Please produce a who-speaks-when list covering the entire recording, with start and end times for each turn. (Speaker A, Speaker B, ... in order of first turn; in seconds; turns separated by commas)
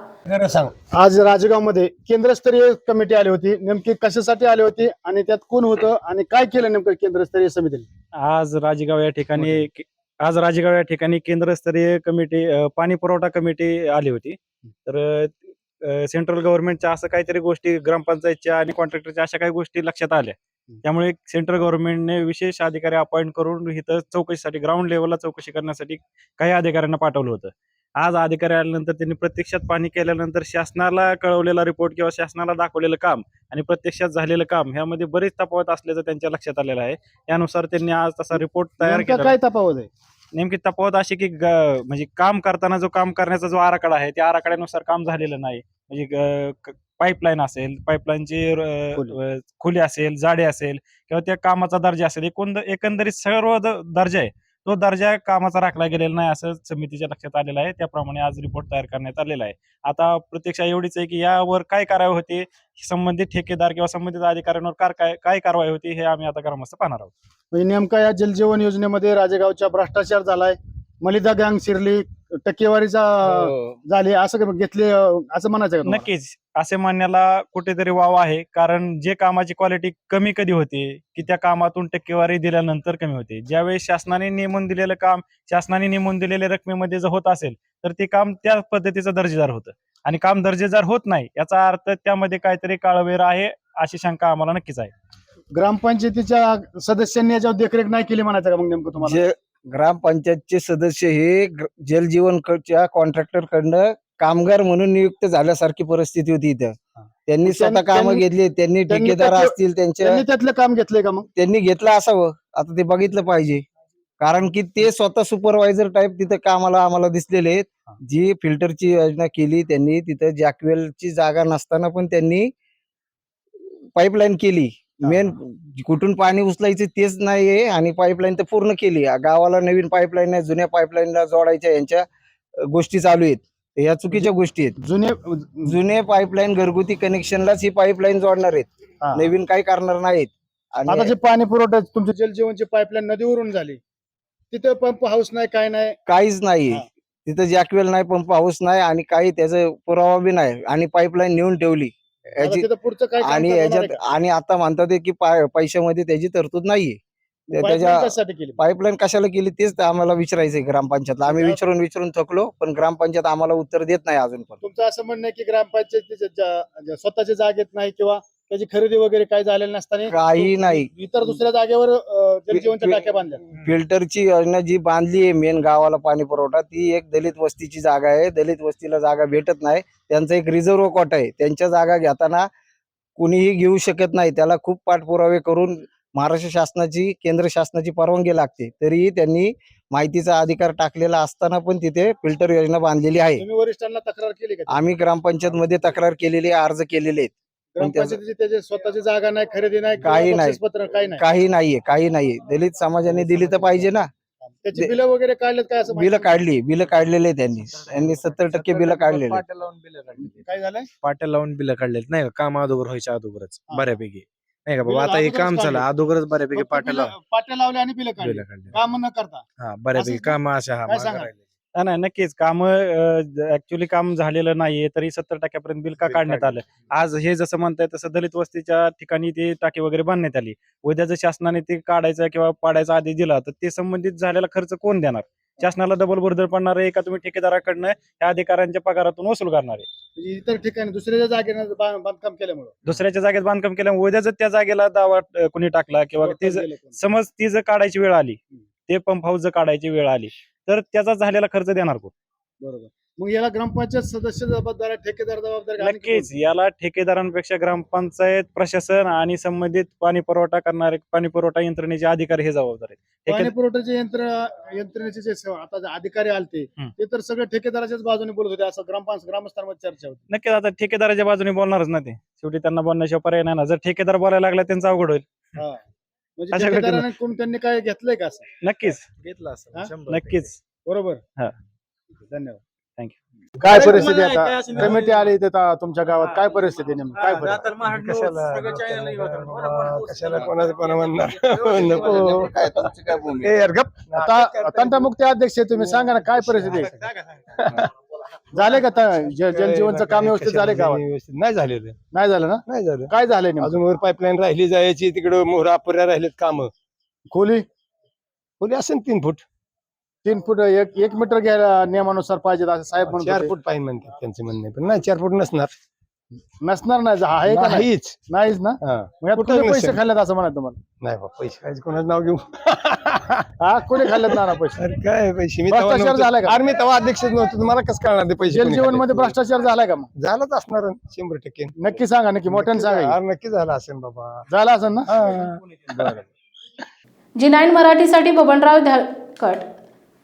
Speaker A: 0.3-0.7, Speaker B: 0.9-7.9, Speaker C: 8.2-39.4, Speaker B: 38.4-39.9, Speaker C: 40.3-67.1, Speaker B: 67.5-76.1, Speaker C: 75.9-94.9, Speaker B: 95.5-99.2, Speaker D: 99.0-106.8, Speaker D: 107.3-110.2, Speaker B: 107.5-108.2, Speaker B: 108.9-111.3, Speaker D: 111.4-113.6, Speaker D: 114.2-122.5, Speaker D: 124.0-132.1, Speaker D: 132.6-134.8, Speaker B: 134.1-135.8, Speaker D: 135.7-141.1, Speaker B: 139.0-139.3, Speaker B: 140.9-143.8, Speaker B: 144.5-146.0, Speaker D: 146.1-152.7, Speaker B: 152.4-154.0, Speaker D: 153.2-157.0, Speaker D: 157.5-164.6, Speaker B: 157.5-158.6, Speaker B: 161.3-161.6, Speaker B: 164.6-173.4, Speaker D: 170.1-170.9, Speaker D: 172.5-173.0, Speaker D: 173.6-182.5, Speaker D: 183.2-193.4, Speaker B: 193.4-194.8, Speaker D: 194.7-198.2, Speaker B: 197.8-201.2, Speaker D: 200.0-200.6, Speaker D: 201.2-204.1, Speaker B: 204.4-206.4, Speaker D: 205.9-209.4, Speaker E: 208.0-210.3, Speaker B: 210.2-210.9, Speaker E: 211.0-217.1, Speaker B: 213.7-214.0, Speaker B: 214.8-215.9, Speaker B: 216.5-221.3, Speaker E: 218.2-218.8, Speaker E: 219.6-221.3, Speaker C: 221.8-239.9, Speaker B: 240.2-242.9, Speaker C: 242.9-252.1, Speaker B: 246.2-247.0, Speaker B: 252.6-256.3, Speaker C: 255.8-263.5, Speaker B: 263.3-270.2, Speaker C: 270.3-275.2, Speaker B: 276.4-278.5, Speaker C: 276.5-277.1, Speaker C: 278.6-279.1, Speaker E: 279.2-280.5, Speaker C: 280.1-280.6, Speaker B: 280.9-281.2, Speaker B: 282.3-282.6, Speaker B: 283.6-287.8, Speaker A: 283.7-284.1, Speaker A: 284.7-285.1, Speaker A: 287.7-295.1, Speaker D: 292.6-293.4, Speaker B: 294.2-297.1, Speaker A: 295.7-297.9, Speaker B: 298.5-301.0, Speaker A: 299.4-302.0, Speaker B: 302.1-303.8, Speaker A: 302.7-306.7, Speaker B: 307.3-307.6, Speaker A: 308.6-309.4, Speaker B: 310.2-313.5, Speaker A: 313.0-315.7, Speaker B: 316.6-320.8, Speaker A: 317.5-318.2, Speaker A: 318.8-320.0, Speaker A: 321.0-323.5, Speaker B: 323.6-324.9, Speaker A: 324.0-329.4, Speaker B: 325.7-326.6, Speaker B: 328.5-330.1, Speaker A: 330.2-331.7, Speaker B: 331.8-333.2, Speaker A: 332.5-334.4, Speaker B: 334.5-335.1, Speaker A: 335.1-336.2, Speaker F: 337.4-339.7